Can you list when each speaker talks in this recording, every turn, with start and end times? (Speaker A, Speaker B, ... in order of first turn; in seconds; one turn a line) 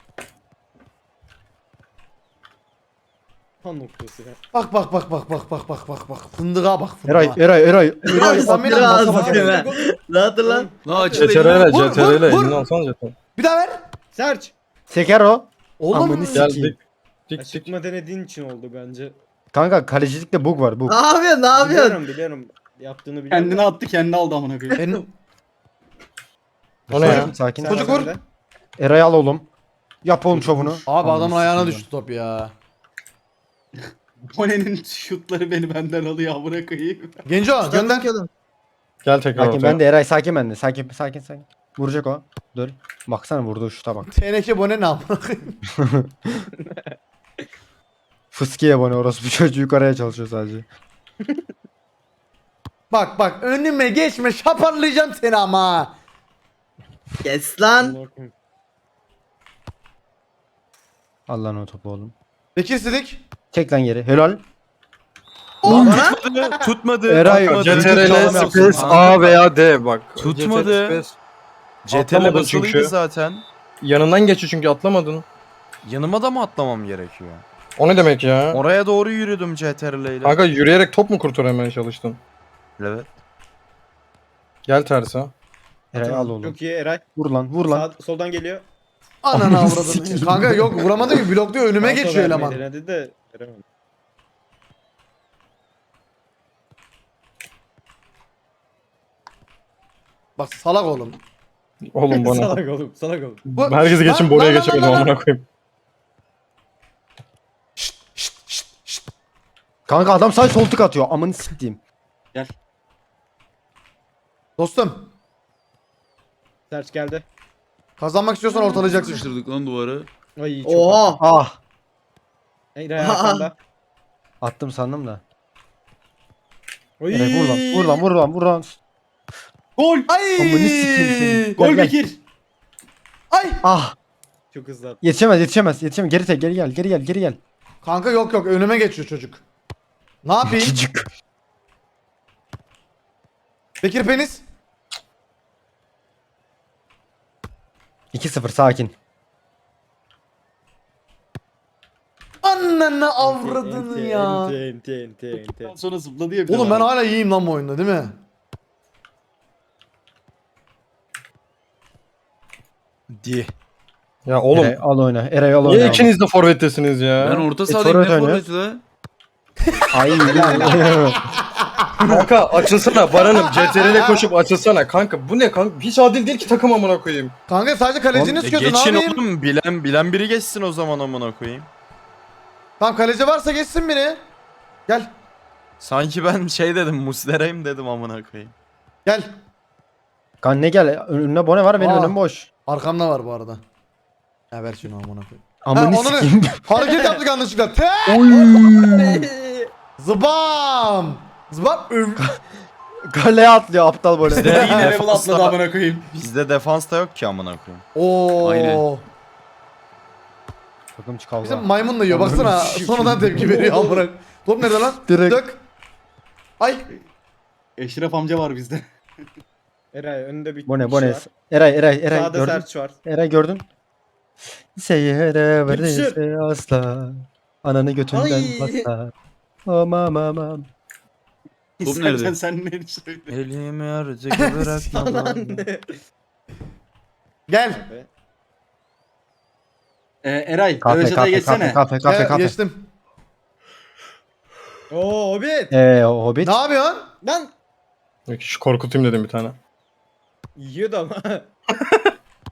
Speaker A: 3.6-4.4
Speaker B: 4.5-7.4
Speaker C: 7.1-8.9
Speaker D: 8.1-10.7
Speaker B: 8.1-9.6
Speaker A: 8.2-9.8
Speaker A: 10.4-11.3
Speaker E: 10.8-11.7
Speaker F: 11.1-13.2
Speaker B: 11.7-12.7
Speaker B: 13.4-13.8
Speaker A: 14.2-14.5
Speaker C: 14.9-16.8
Speaker B: 15.8-16.5
Speaker F: 16.3-17.7
Speaker A: 17.4-19.2
Speaker C: 19.5-21.0
Speaker D: 20.9-22.0
Speaker A: 21.5-23.7
Speaker G: 23.3-24.8
Speaker B: 24.8-25.1
Speaker C: 26.9-27.9
Speaker F: 26.9-27.4
Speaker B: 27.0-28.1
Speaker A: 27.1-28.2
Speaker C: 28.8-29.5
Speaker C: 30.0-31.9
Speaker G: 30.4-30.8
Speaker B: 30.9-32.5
Speaker G: 34.3-37.2
Speaker B: 37.3-38.1
Speaker D: 37.7-38.3
Speaker F: 39.0-39.8
Speaker C: 39.4-44.1
Speaker B: 44.1-45.6
Speaker C: 45.8-46.4
Speaker A: 46.6-47.5
Speaker C: 48.3-50.7
Speaker B: 52.9-55.9
Speaker D: 57.2-58.0
Speaker A: 57.8-58.3
Speaker C: 61.3-62.1
Speaker B: 62.5-63.2
Speaker C: 63.5-64.4
Speaker B: 65.6-66.0
Speaker A: 65.7-66.7
Speaker H: 65.7-69.4
Speaker D: 65.8-66.2
Speaker C: 67.1-69.1
Speaker F: 67.2-71.2
Speaker G: 68.0-69.2
Speaker H: 70.2-71.1
Speaker H: 71.8-73.4
Speaker F: 71.9-72.9
Speaker F: 73.8-75.2
Speaker H: 75.8-77.4
Speaker F: 77.8-78.6
Speaker H: 78.5-80.4
Speaker F: 80.2-82.2
Speaker H: 82.8-83.1
Speaker F: 84.7-85.3
Speaker C: 85.9-86.6
Speaker A: 86.0-87.0
Speaker C: 87.2-87.9
Speaker A: 87.6-88.7
Speaker B: 89.2-92.6
Speaker C: 89.3-90.9
Speaker A: 91.8-93.6
Speaker B: 100.4-101.2
Speaker F: 101.9-102.6
Speaker A: 102.1-103.4
Speaker F: 103.5-105.5
Speaker B: 103.6-105.1
Speaker B: 107.8-109.1
Speaker C: 109.9-111.8
Speaker B: 114.6-115.1
Speaker A: 116.7-117.2
Speaker B: 118.0-119.3
Speaker E: 118.8-120.1
Speaker A: 120.4-121.2
Speaker D: 120.7-121.2
Speaker C: 121.2-121.6
Speaker A: 122.8-123.5
Speaker D: 123.0-123.5
Speaker C: 124.4-125.2
Speaker A: 127.0-128.1
Speaker C: 127.1-128.8
Speaker G: 129.8-130.1
Speaker B: 130.1-131.6
Speaker C: 130.4-132.0
Speaker G: 131.6-132.2
Speaker B: 133.3-133.7
Speaker C: 133.6-133.9
Speaker A: 134.5-135.0
Speaker C: 135.0-137.4
Speaker B: 137.8-139.4
Speaker B: 140.2-140.8
Speaker C: 140.4-141.1
Speaker B: 143.8-144.4
Speaker C: 148.1-148.9
Speaker B: 152.4-154.6
Speaker A: 153.2-155.8
Speaker G: 155.3-156.9
Speaker B: 156.5-158.2
Speaker H: 163.1-163.5
Speaker F: 164.3-164.8
Speaker C: 164.5-166.1
Speaker F: 165.6-167.5
Speaker E: 167.2-168.8
Speaker C: 167.7-168.4
Speaker B: 169.7-174.3
Speaker C: 169.9-171.2
Speaker F: 172.1-177.3
Speaker B: 177.5-179.2
Speaker H: 178.2-181.7
Speaker B: 182.8-184.2
Speaker H: 185.8-188.5
Speaker C: 190.4-192.5
Speaker B: 191.8-193.6
Speaker B: 194.5-198.4
Speaker C: 195.7-196.7
Speaker C: 198.1-199.2
Speaker A: 198.3-199.7
Speaker B: 200.0-202.3
Speaker C: 203.1-204.7
Speaker B: 204.3-205.0
Speaker G: 204.4-206.1
Speaker H: 204.4-205.6
Speaker H: 206.1-207.8
Speaker B: 207.9-209.0
Speaker E: 208.4-208.9
Speaker C: 210.9-212.6
Speaker B: 211.4-215.6
Speaker A: 212.3-214.1
Speaker C: 215.1-215.4
Speaker B: 216.6-217.0
Speaker G: 217.8-218.8
Speaker A: 219.9-221.3
Speaker C: 220.7-223.7
Speaker A: 222.1-223.0
Speaker C: 224.7-229.1
Speaker A: 225.7-226.2
Speaker A: 228.1-228.9
Speaker C: 229.7-230.7
Speaker G: 231.8-233.4
Speaker E: 231.8-232.4
Speaker H: 233.3-235.6
Speaker B: 234.3-235.1
Speaker A: 234.9-236.0
Speaker B: 237.5-237.8
Speaker A: 237.7-238.1
Speaker G: 240.2-241.8
Speaker C: 240.8-242.6
Speaker B: 242.0-242.9
Speaker A: 244.9-245.7
Speaker C: 245.7-246.6
Speaker B: 246.4-247.1
Speaker A: 247.2-247.5
Speaker F: 248.3-249.6
Speaker A: 250.6-251.5
Speaker F: 251.8-252.1